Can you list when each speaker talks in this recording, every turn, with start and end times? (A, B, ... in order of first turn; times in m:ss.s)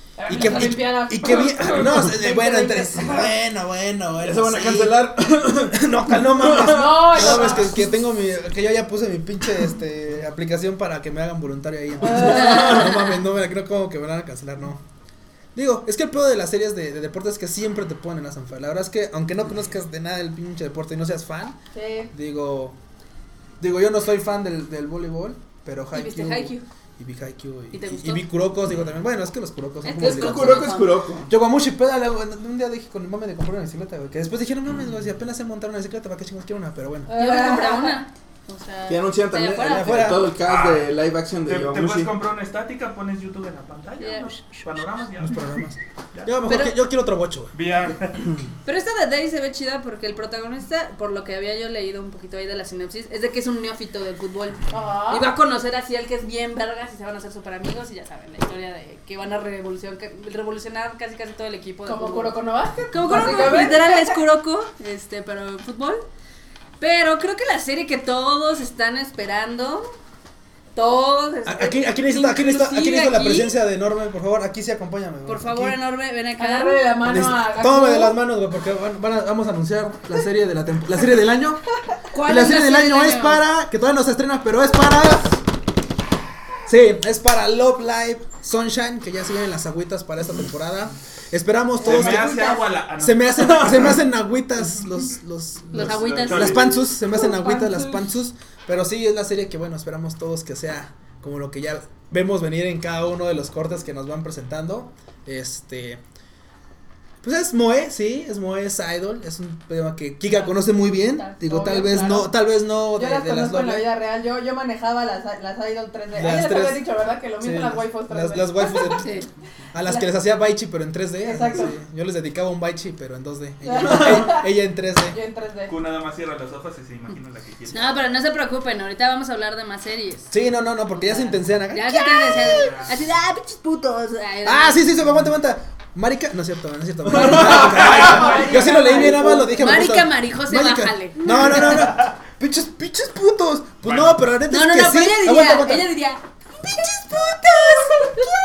0:00.2-0:03.3 A
0:00.2-0:05.1 B
0:04.2-0:05.8 C
0:05.7-0:14.8 B
0:06.4-0:07.7 C
0:06.6-0:07.8 A
0:12.1-0:12.9 A
0:15.5-0:21.6 B
0:21.7-0:22.1 A
0:22.1-0:22.8 B
0:23.6-0:37.1 B
0:25.9-0:26.6 D
0:27.7-0:28.2 D
0:29.8-0:30.9 D
0:30.0-0:31.3 C
0:37.1-0:38.0 A
0:37.1-0:40.0 D
0:38.9-0:42.1 C
0:39.6-0:40.3 B
0:40.4-0:40.9 E
0:41.5-0:45.5 E
0:44.0-0:44.6 D
0:45.2-0:47.5 B
0:46.5-0:46.7 D
0:47.5-0:48.2 E
0:48.6-1:02.4 D
0:54.7-0:55.3 A
1:01.8-1:04.2 A
1:02.9-1:06.0 D
1:06.8-1:09.9 D
1:10.7-1:13.6 D
1:11.4-1:15.8 B
1:15.2-1:16.9 D
1:16.4-1:18.2 A
1:17.0-1:25.4 B
1:22.1-1:23.4 D
1:26.6-1:32.4 B
1:31.8-1:32.7 A
1:31.8-1:34.0 E
1:33.0-1:46.0 B
1:35.7-1:36.6 D
1:36.0-1:36.6 E
1:36.0-1:36.4 C
1:36.8-1:38.0 A
1:47.2-1:53.9 B
1:51.2-1:52.3 A
1:52.9-1:59.0 A
1:56.1-1:56.8 B
1:57.4-1:59.1 B
1:58.8-1:59.3 D
1:59.7-2:05.2 B
2:01.2-2:01.7 A
2:03.6-2:04.5 A
2:05.1-2:05.7 A
2:05.7-2:08.0 E
2:07.7-2:10.3 D
2:10.3-2:12.7 B
2:11.0-2:14.8 D
2:14.4-2:25.9 B
2:17.2-2:19.6 A
2:17.6-2:18.5 E
2:18.3-2:21.7 D
2:23.8-2:24.2 E
2:24.5-2:28.2 D
2:26.7-2:28.2 B